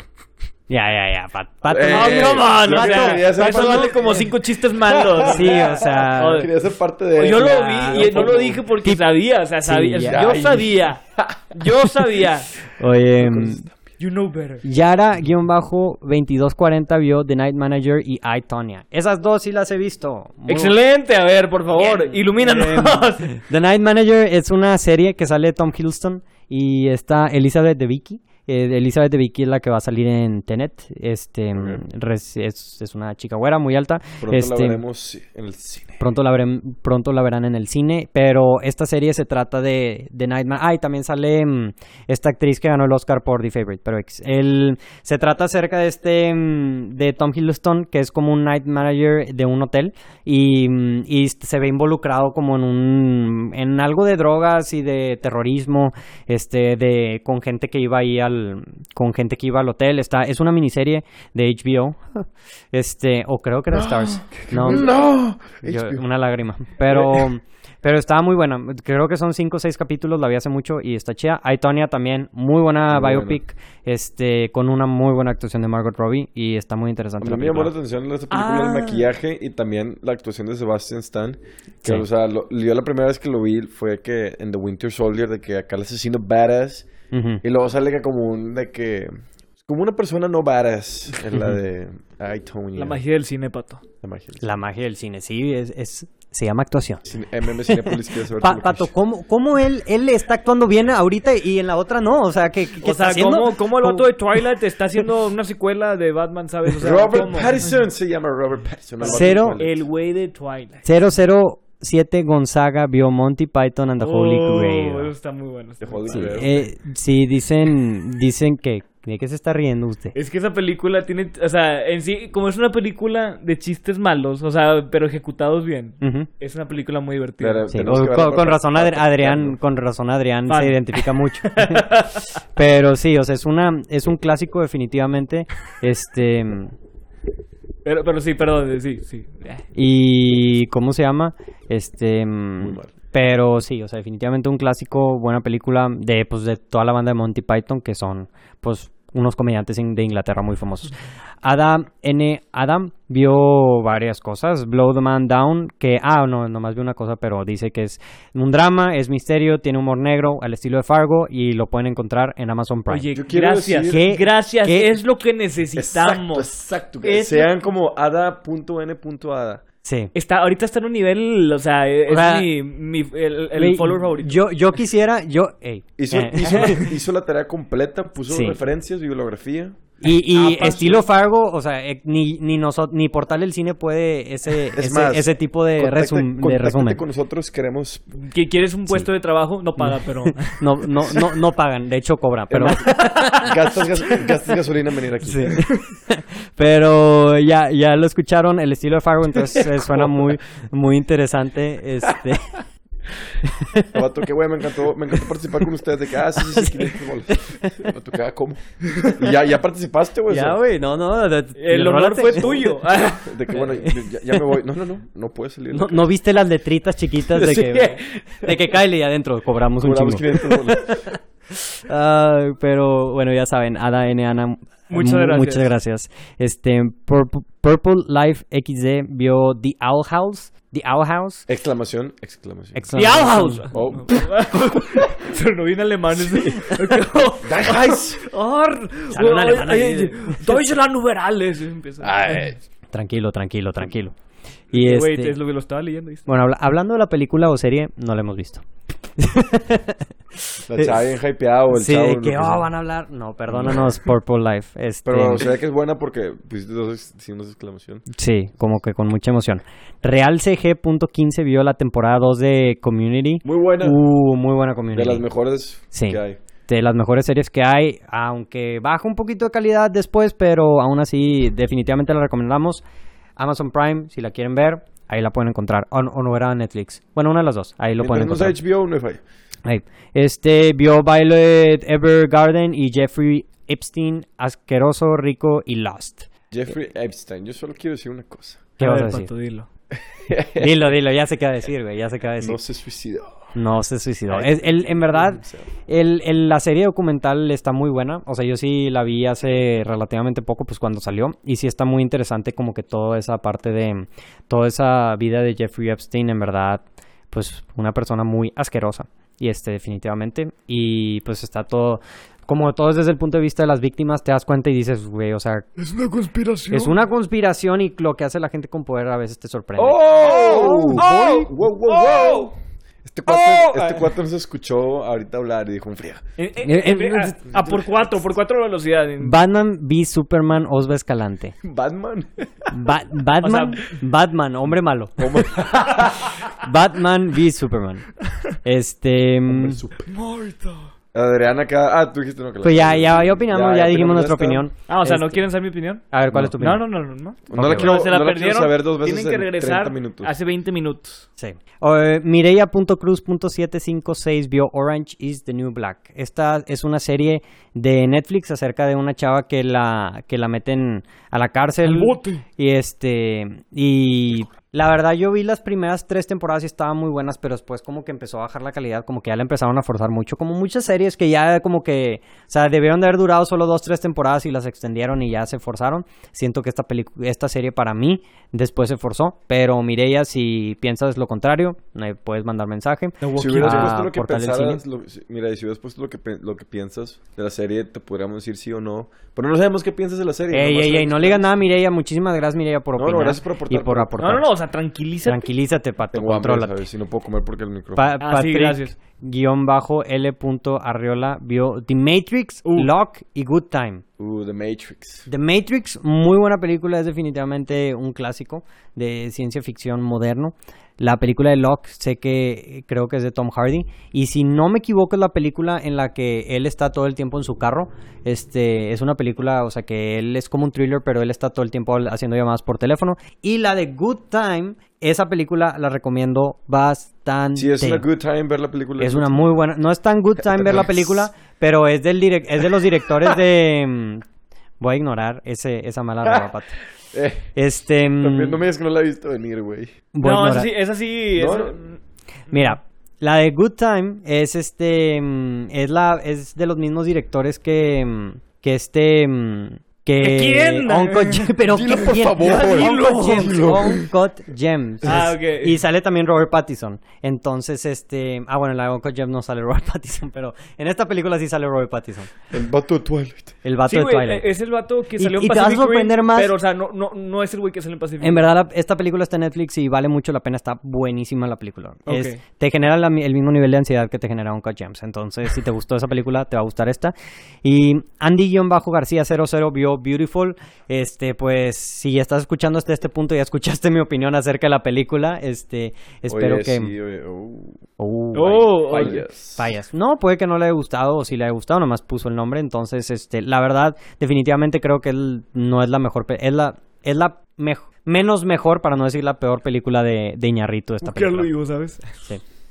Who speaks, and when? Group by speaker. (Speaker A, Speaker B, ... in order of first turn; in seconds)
Speaker A: 0.7-4.0, 5.2-6.5, 7.3-9.0, 9.6-10.6, 12.8-13.6, 14.6-20.7, 21.8-34.8, 36.0-64.9, 65.6-77.7, 87.1-87.4, 94.4-97.0, 97.6-104.1, 109.0-109.6, 110.8-115.1, 116.1-120.1, 126.0-126.3, 127.7-131.9, 132.6-136.7, 139.7-163.1, 163.8-164.9, 169.8-170.1, 172.1-172.5, 173.6-176.9, 178.3-178.6, 180.0-187.0, 189.8-193.5, 195.2-202.6, 203.4-203.9, 206.4-207.8, 210.3-212.8, 215.7-221.2, 221.8-231.5, 232.7-233.7, 239.1-240.6, 242.9-244.1, 244.7-245.3, 246.2-248.7, 249.2-251.1, 251.7-255.5, 258.1-265.2, 265.9-272.8, 273.4-278.6, 279.6-286.3, 288.8-289.3, 290.6-292.6, 293.5-315.7, 316.7-321.4, 326.6-327.8, 329.2-331.6, 332.7-335.5, 336.6-338.1, 338.6-339.8, 342.6-345.5, 346.1-346.8, 347.5-347.9, 351.4-384.8, 390.5-394.4, 395.2-396.8, 397.9-404.0, 405.3-428.0, 429.0-434.2, 434.8-436.8, 437.5-438.6, 440.1-440.7, 442.5-462.3, 463.6-464.4, 465.2-466.5, 468.2-486.9, 488.0-501.5
Speaker B: 1.7-8.6, 10.0-12.3, 13.2-13.8, 31.5-31.8, 34.2-36.0, 63.7-66.0, 66.9-67.3, 72.9-73.4, 77.2-86.9, 87.4-93.0, 94.0-94.5, 97.0-98.9, 106.8-109.8, 115.8-116.5, 127.4-129.6, 142.6-142.9, 163.1-164.0, 165.8-169.6, 176.0-179.8, 184.7-188.0, 192.5-195.6, 203.9-210.6, 213.0-216.1, 217.2-218.6, 219.8-221.1, 231.5-232.9, 233.7-235.1, 237.4-238.2, 242.0-242.6, 250.7-252.7, 253.5-253.9, 255.0-258.0, 263.4-264.0, 264.9-266.4, 278.0-279.2, 286.5-288.7, 290.1-290.9, 292.4-293.5, 294.3-295.7, 319.8-326.2, 331.6-332.4, 335.2-336.4, 339.5-340.1, 341.1-344.6, 347.5-350.3, 383.3-391.4, 393.0-394.2, 396.1-398.1, 404.2-405.2, 427.5-429.5, 430.4-431.3, 436.2-436.5, 437.1-437.5, 438.2-439.9, 441.3-441.8, 451.7-454.1, 462.5-463.6, 486.3-487.8, 488.9-489.7
Speaker C: 1.9-6.5, 7.2-11.0, 11.5-12.5, 14.0-14.6, 20.5-23.3, 78.3-79.1, 92.8-93.8, 102.8-107.6, 109.0-110.9, 114.0-116.5, 120.1-127.6, 130.5-132.3, 137.8-139.6, 162.9-166.5, 167.0-167.5, 170.1-174.4, 176.4-176.8, 180.3-181.1, 188.2-190.8, 192.8-193.6, 195.4-195.8, 211.6-213.7, 224.9-225.7, 232.9-242.6, 244.7-246.2, 288.8-289.7, 315.8-316.9, 320.2-322.5, 323.3-324.1, 326.4-329.4, 333.4-333.9, 340.1-340.9, 344.9-351.2, 361.8-362.4, 383.2-383.9, 394.2-395.4, 398.2-398.9, 402.6-402.9, 440.2-442.0, 450.2-451.5, 452.4-453.8, 455.0-455.8, 463.9-468.5, 472.1-472.4, 488.3-489.2, 501.0-502.2